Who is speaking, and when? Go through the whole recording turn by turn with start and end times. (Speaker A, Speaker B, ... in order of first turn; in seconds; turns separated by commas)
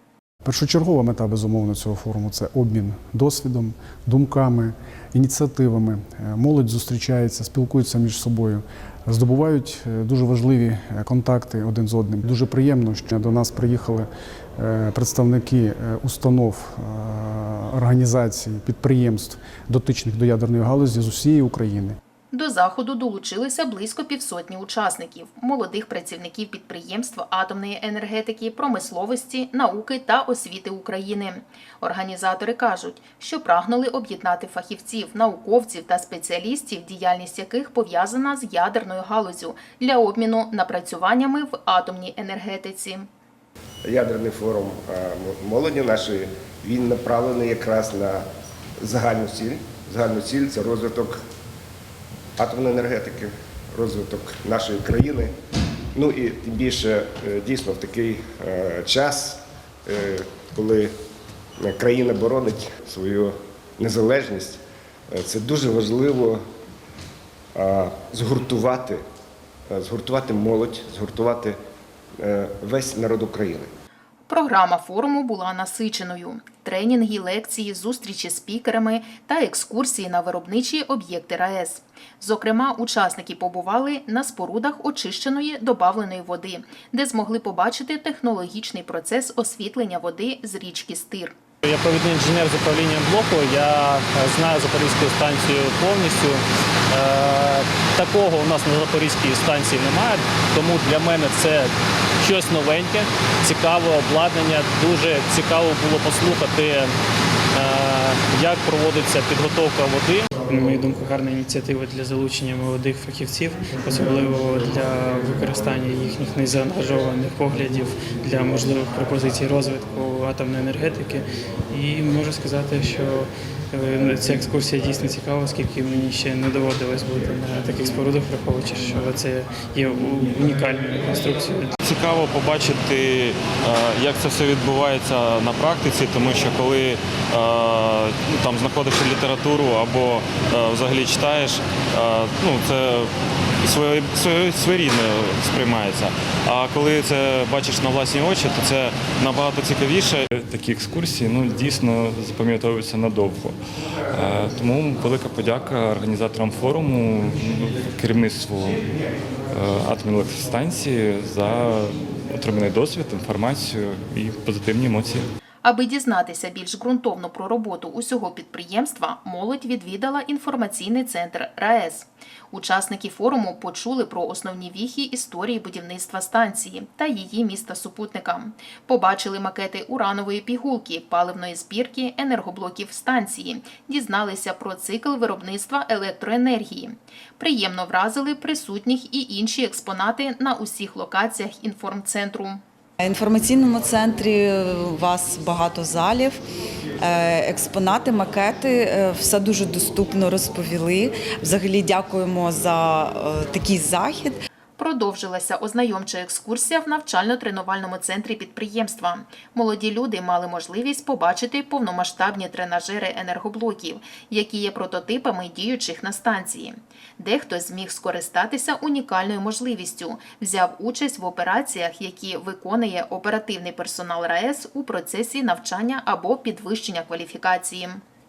Speaker A: 0.5-22.0, Speaker B: 22.3-43.1, Speaker C: 43.9-48.3, Speaker C: 48.8-51.2, Speaker C: 52.4-55.3, Speaker C: 56.0-60.9, Speaker C: 61.6-64.6, Speaker C: 65.1-66.4, Speaker C: 67.5-69.0, Speaker C: 69.7-71.6, Speaker C: 72.2-73.7, Speaker B: 74.3-91.3, Speaker D: 91.6-96.4, Speaker D: 96.9-101.7, Speaker D: 102.2-106.9, Speaker D: 107.5-110.3, Speaker E: 110.5-131.8, Speaker F: 131.8-143.1, Speaker F: 143.6-150.2, Speaker G: 150.2-153.6, Speaker G: 154.1-158.8, Speaker G: 159.5-165.3, Speaker B: 165.6-192.6, Speaker H: 193.0-196.4, Speaker H: 197.1-204.4, Speaker B: 204.8-228.0